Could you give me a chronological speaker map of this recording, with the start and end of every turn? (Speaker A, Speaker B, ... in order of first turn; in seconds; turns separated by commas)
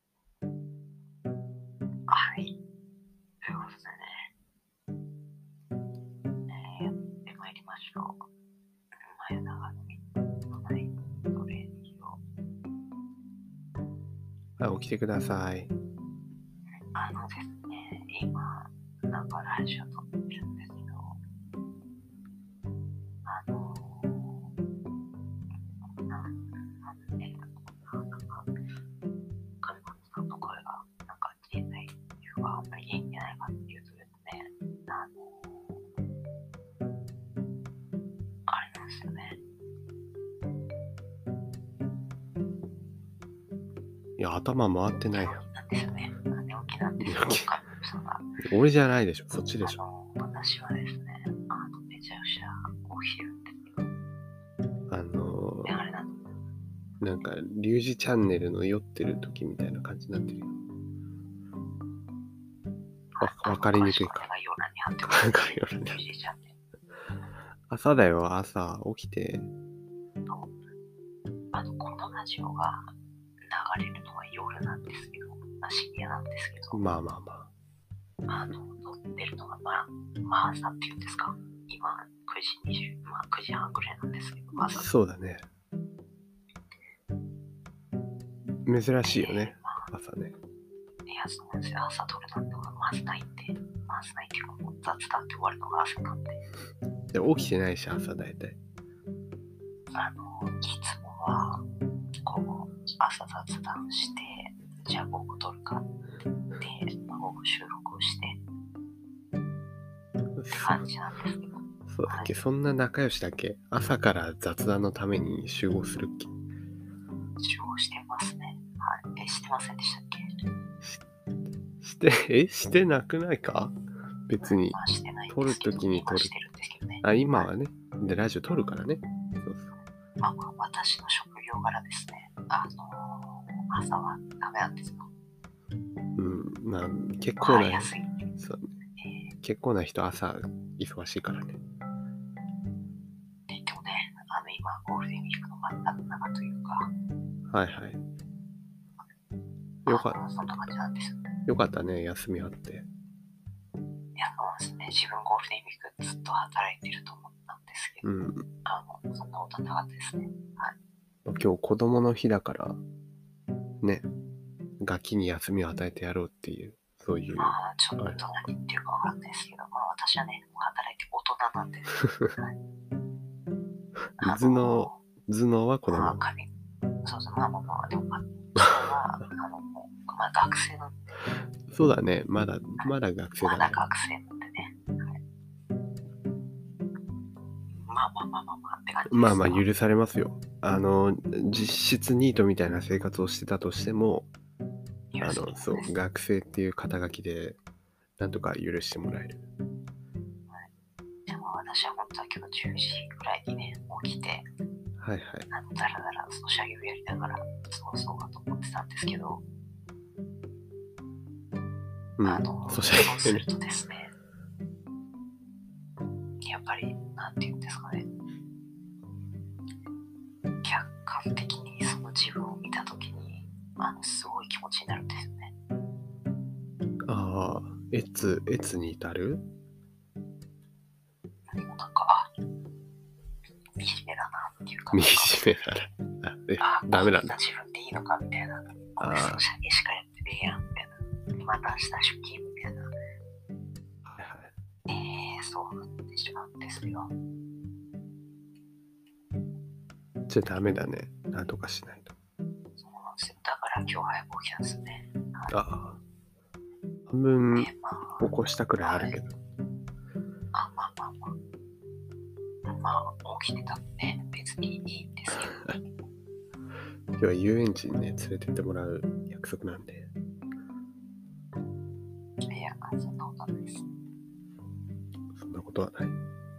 Speaker A: 2.1-2.5, Speaker A: 3.4-4.3, Speaker A: 6.5-8.2, Speaker A: 8.9-12.2, Speaker B: 14.6-15.7, Speaker A: 16.8-21.2, Speaker A: 23.2-24.5, Speaker A: 26.1-28.5, Speaker A: 29.6-35.8, Speaker A: 38.5-39.4, Speaker B: 44.2-45.4, Speaker A: 45.1-48.4, Speaker B: 47.0-47.5, Speaker B: 48.4-49.8, Speaker A: 49.6-53.9, Speaker B: 54.9-55.8, Speaker A: 55.6-56.3, Speaker B: 57.0-60.6, Speaker A: 63.1-66.5, Speaker B: 63.2-64.3, Speaker B: 65.0-66.0, Speaker B: 67.7-69.5, Speaker A: 70.2-70.5, Speaker A: 71.5-72.9, Speaker A: 73.4-76.8, Speaker B: 76.7-77.5, Speaker A: 78.3-84.9, Speaker B: 84.5-85.5, Speaker B: 88.7-90.3, Speaker A: 89.0-89.9, Speaker A: 91.0-96.4, Speaker B: 97.1-98.6, Speaker A: 99.9-101.6, Speaker A: 102.2-105.9, Speaker A: 106.6-108.4, Speaker B: 110.4-110.8, Speaker A: 110.5-112.3, Speaker B: 111.9-116.3, Speaker A: 117.4-120.3, Speaker B: 121.8-123.7, Speaker B: 124.3-124.8, Speaker A: 124.4-127.5, Speaker B: 125.3-126.3, Speaker B: 127.0-129.7, Speaker A: 130.2-135.1, Speaker B: 136.2-138.7, Speaker A: 137.4-139.3, Speaker B: 139.4-141.6, Speaker A: 143.5-146.9, Speaker B: 147.5-148.0, Speaker B: 149.8-150.2, Speaker A: 149.9-151.2, Speaker B: 151.5-152.9, Speaker A: 154.2-158.1, Speaker B: 158.0-158.4, Speaker A: 158.6-160.8, Speaker B: 161.2-162.8, Speaker B: 163.8-164.1, Speaker B: 164.8-168.2, Speaker A: 167.3-172.6, Speaker A: 174.2-175.0, Speaker B: 174.2-176.2, Speaker A: 175.9-176.5, Speaker A: 177.0-181.0, Speaker B: 181.7-183.8, Speaker A: 182.8-185.2, Speaker A: 187.9-189.6, Speaker B: 189.1-194.3, Speaker A: 195.1-195.9, Speaker B: 195.2-197.6, Speaker B: 198.2-199.5, Speaker A: 201.3-204.5, Speaker B: 205.0-205.5, Speaker A: 205.5-209.4, Speaker B: 212.2-213.4, Speaker A: 212.2-214.1, Speaker A: 216.4-218.1, Speaker A: 220.6-225.5, Speaker B: 227.1-229.4, Speaker A: 231.5-232.3, Speaker A: 233.8-235.6, Speaker B: 234.9-237.4, Speaker A: 236.6-242.9, Speaker B: 239.0-239.4, Speaker B: 244.0-244.5, Speaker A: 244.9-247.1, Speaker B: 250.3-252.1, Speaker A: 252.8-255.6, Speaker B: 255.5-256.0, Speaker B: 257.1-259.3, Speaker A: 257.6-258.3, Speaker A: 258.8-259.1, Speaker A: 260.5-261.3, Speaker A: 262.6-265.9, Speaker B: 265.4-265.7, Speaker B: 267.2-270.1, Speaker A: 272.4-273.9, Speaker B: 275.3-276.1